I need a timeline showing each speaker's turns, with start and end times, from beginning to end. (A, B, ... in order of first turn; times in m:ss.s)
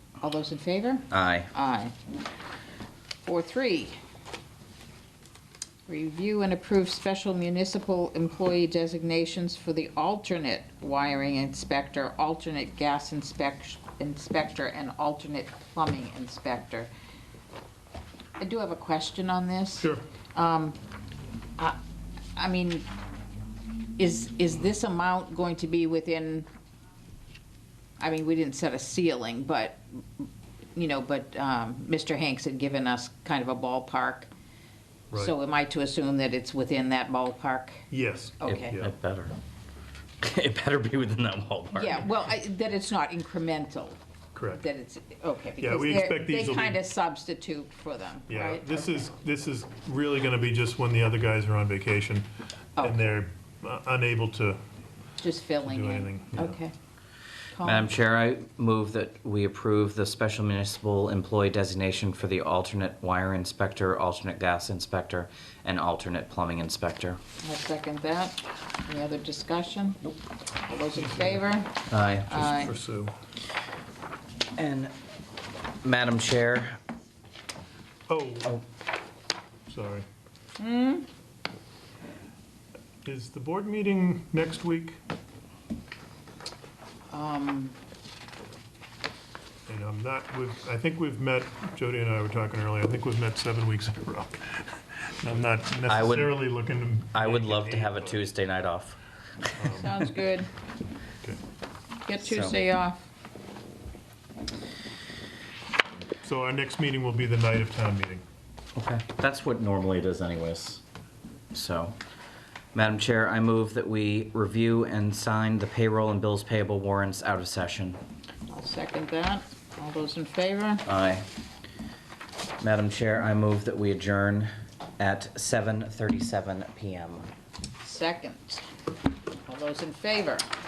0:00.2-0:02.0 A
0:01.1-0:01.5 B
0:03.2-0:04.0 A
0:05.9-0:16.9 A
0:18.4-0:20.8 A
0:22.4-0:22.9 A
0:24.0-0:26.5 A
0:28.0-0:34.3 A
0:35.2-0:37.8 A
0:37.9-0:38.9 C
0:38.4-0:38.8 A
0:38.4-0:39.4 B
0:40.2-0:42.1 B
0:41.7-0:44.0 A
0:44.4-0:44.6 C
0:44.5-0:49.0 A
0:45.6-0:46.8 C
0:48.3-0:52.3 C
0:52.8-0:53.1 A
0:52.8-0:54.6 C
0:55.2-0:56.7 A
0:55.6-0:56.6 C
0:57.5-0:57.9 A
0:57.6-1:07.2 B
1:07.4-1:12.7 A
1:11.0-1:11.4 C
1:11.9-1:12.4 B
1:12.3-1:13.1 C
1:14.6-1:14.9 B
1:15.8-1:16.8 B
1:18.1-1:18.6 C
1:19.7-1:20.0 C
1:20.6-1:21.1 A
1:23.0-1:25.0 C
1:27.1-1:27.8 A
1:29.7-1:38.2 C
1:35.9-1:36.4 B
1:37.1-1:39.7 B
1:39.6-1:40.0 C
1:39.8-1:40.5 A
1:42.0-1:43.1 A
1:42.2-1:42.6 B
1:46.2-1:48.2 C
1:48.8-1:50.8 B
1:51.5-1:52.0 B
1:52.7-1:58.0 B
1:58.5-2:00.9 A
2:00.9-2:01.2 B
2:02.6-2:07.3 B
2:07.8-2:08.7 A
2:09.5-2:10.5 A